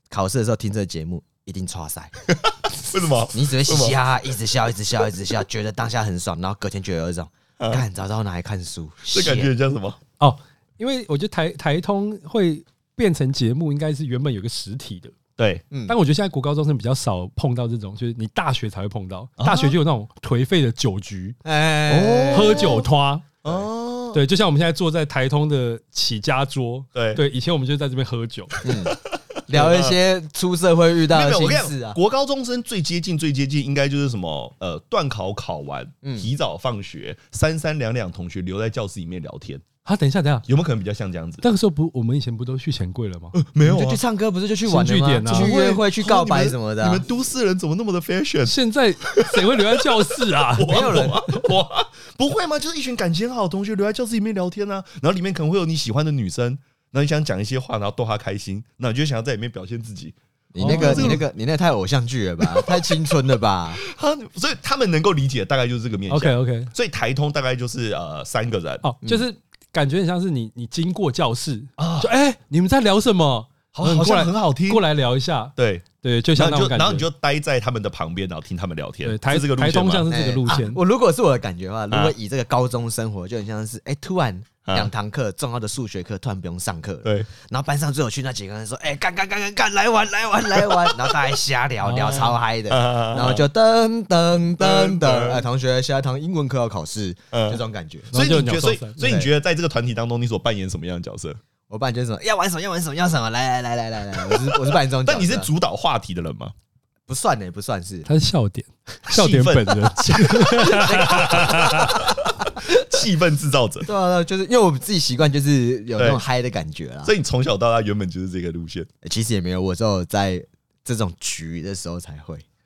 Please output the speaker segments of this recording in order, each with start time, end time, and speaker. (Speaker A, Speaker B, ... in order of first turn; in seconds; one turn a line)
Speaker A: 0.1-2.1
Speaker B: 2.4-4.0
Speaker A: 3.3-9.5
Speaker B: 7.6-7.8
Speaker B: 9.1-10.0
Speaker C: 10.2-15.2
Speaker B: 15.4-15.6
Speaker A: 15.7-15.9
Speaker C: 15.9-21.4
Speaker B: 19.4-19.8
Speaker A: 21.4-22.9
Speaker B: 21.9-22.9
Speaker C: 22.3-23.3
Speaker B: 23.4-24.2
Speaker C: 24.1-28.6
Speaker B: 26.9-27.2
Speaker A: 28.6-28.9
Speaker B: 28.7-30.0
Speaker A: 29.5-32.0
Speaker B: 31.1-39.6
Speaker A: 36.0-36.3
Speaker C: 39.8-40.4
Speaker B: 40.5-41.4
Speaker C: 41.4-43.4
Speaker B: 43.3-44.0
Speaker A: 43.6-47.0
Speaker C: 44.6-45.5
Speaker B: 45.2-48.6
Speaker C: 48.4-51.5
Speaker B: 49.1-61.2
Speaker A: 50.7-51.2
Speaker A: 60.5-63.8
Speaker C: 60.6-61.2
Speaker B: 62.4-63.2
Speaker B: 63.8-68.8
Speaker C: 66.1-66.7
Speaker C: 68.8-77.1
Speaker B: 71.8-72.1
Speaker B: 73.7-74.8
Speaker B: 75.5-80.1
Speaker C: 79.0-80.8
Speaker A: 80.1-98.1
Speaker B: 81.9-82.1
Speaker B: 84.6-84.9
Speaker B: 87.0-87.3
Speaker B: 90.5-91.2
Speaker C: 91.8-92.3
Speaker B: 92.7-93.5
Speaker B: 94.6-95.5
Speaker B: 97.3-97.6
Speaker B: 98.1-101.4
Speaker C: 98.1-99.0
Speaker A: 99.0-99.3
Speaker A: 101.7-105.5
Speaker B: 104.2-106.5
Speaker A: 107.1-108.1
Speaker C: 108.0-112.0
Speaker B: 109.1-113.9
Speaker A: 110.6-112.7
Speaker A: 113.8-117.1
Speaker B: 116.0-116.2
Speaker B: 117.0-118.9
Speaker A: 119.0-122.4